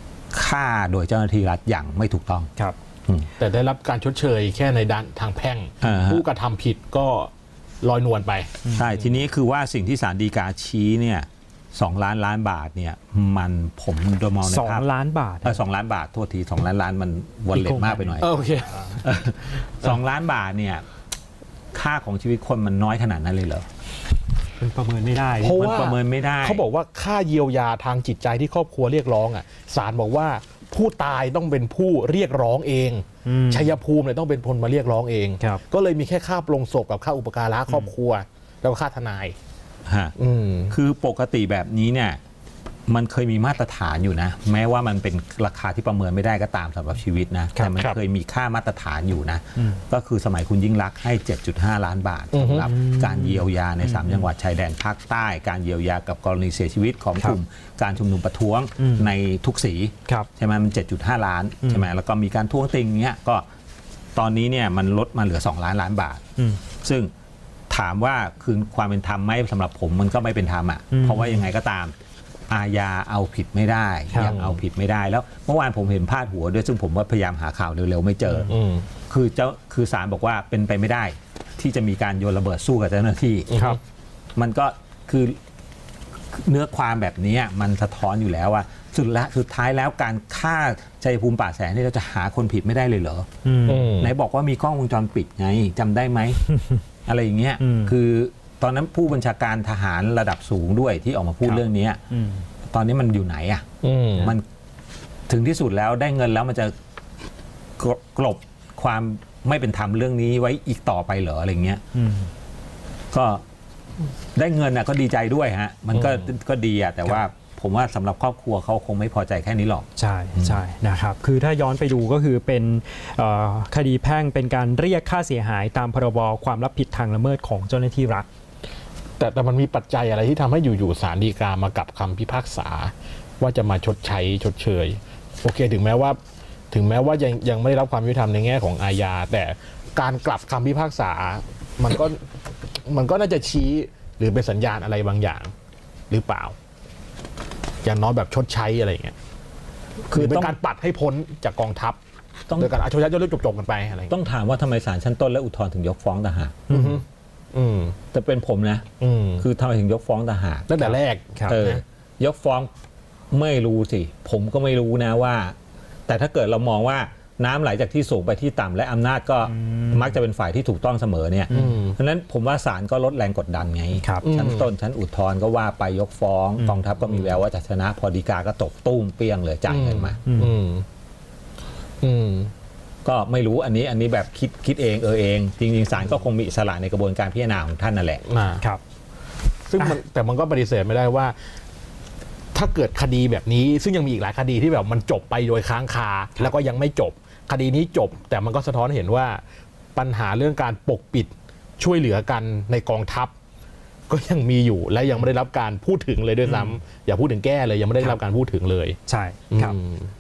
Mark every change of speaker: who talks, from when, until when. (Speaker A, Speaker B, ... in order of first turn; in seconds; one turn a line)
Speaker A: 0.3-2.5
Speaker B: 3.4-7.3
Speaker A: 5.8-6.2
Speaker B: 7.8-9.1
Speaker A: 8.8-14.9
Speaker C: 14.4-15.6
Speaker A: 15.4-18.3
Speaker C: 17.5-19.0
Speaker B: 18.2-18.8
Speaker A: 19.0-20.9
Speaker A: 21.7-23.7
Speaker C: 24.6-25.9
Speaker B: 25.4-39.4
Speaker A: 25.5-26.6
Speaker C: 33.3-33.8
Speaker A: 39.9-40.1
Speaker B: 40.2-40.8
Speaker A: 40.7-42.2
Speaker A: 42.9-63.5
Speaker B: 52.3-52.7
Speaker C: 52.6-54.3
Speaker C: 58.8-59.1
Speaker A: 64.2-66.2
Speaker A: 66.8-67.1
Speaker A: 67.7-71.9
Speaker C: 70.9-71.4
Speaker A: 72.5-78.5
Speaker B: 74.2-74.6
Speaker B: 78.4-78.8
Speaker A: 79.1-83.5
Speaker B: 83.5-83.8
Speaker A: 84.4-85.4
Speaker A: 86.3-93.3
Speaker C: 93.5-93.9
Speaker B: 93.7-94.1
Speaker A: 94.0-96.4
Speaker C: 96.5-96.8
Speaker A: 97.1-102.0
Speaker C: 97.6-97.9
Speaker C: 101.4-102.4
Speaker A: 102.7-103.7
Speaker B: 103.8-104.3
Speaker A: 104.2-104.4
Speaker A: 105.3-106.8
Speaker A: 107.8-111.8
Speaker C: 111.9-112.3
Speaker A: 113.1-113.4
Speaker A: 114.3-120.6
Speaker B: 116.0-116.3
Speaker C: 120.0-128.3
Speaker B: 129.2-136.2
Speaker B: 136.7-142.2
Speaker B: 142.9-145.5
Speaker B: 146.1-146.5
Speaker B: 147.8-149.2
Speaker A: 150.1-150.6
Speaker B: 150.1-152.0
Speaker B: 152.6-154.1
Speaker A: 154.1-156.7
Speaker C: 156.7-157.0
Speaker B: 156.7-158.0
Speaker A: 158.1-160.9
Speaker B: 159.0-159.4
Speaker B: 160.7-161.8
Speaker C: 160.8-161.8
Speaker A: 161.5-162.7
Speaker A: 163.3-165.6
Speaker A: 166.1-180.2
Speaker C: 169.5-170.1
Speaker C: 171.5-171.8
Speaker B: 171.5-172.0
Speaker B: 174.2-174.7
Speaker B: 179.7-180.8
Speaker C: 180.3-180.6
Speaker B: 182.0-182.5
Speaker A: 183.1-188.2
Speaker B: 188.3-188.6
Speaker B: 189.7-191.3
Speaker B: 192.5-199.4
Speaker B: 199.9-203.3
Speaker B: 204.1-209.0
Speaker C: 206.5-206.8
Speaker C: 209.1-209.8
Speaker B: 209.5-210.1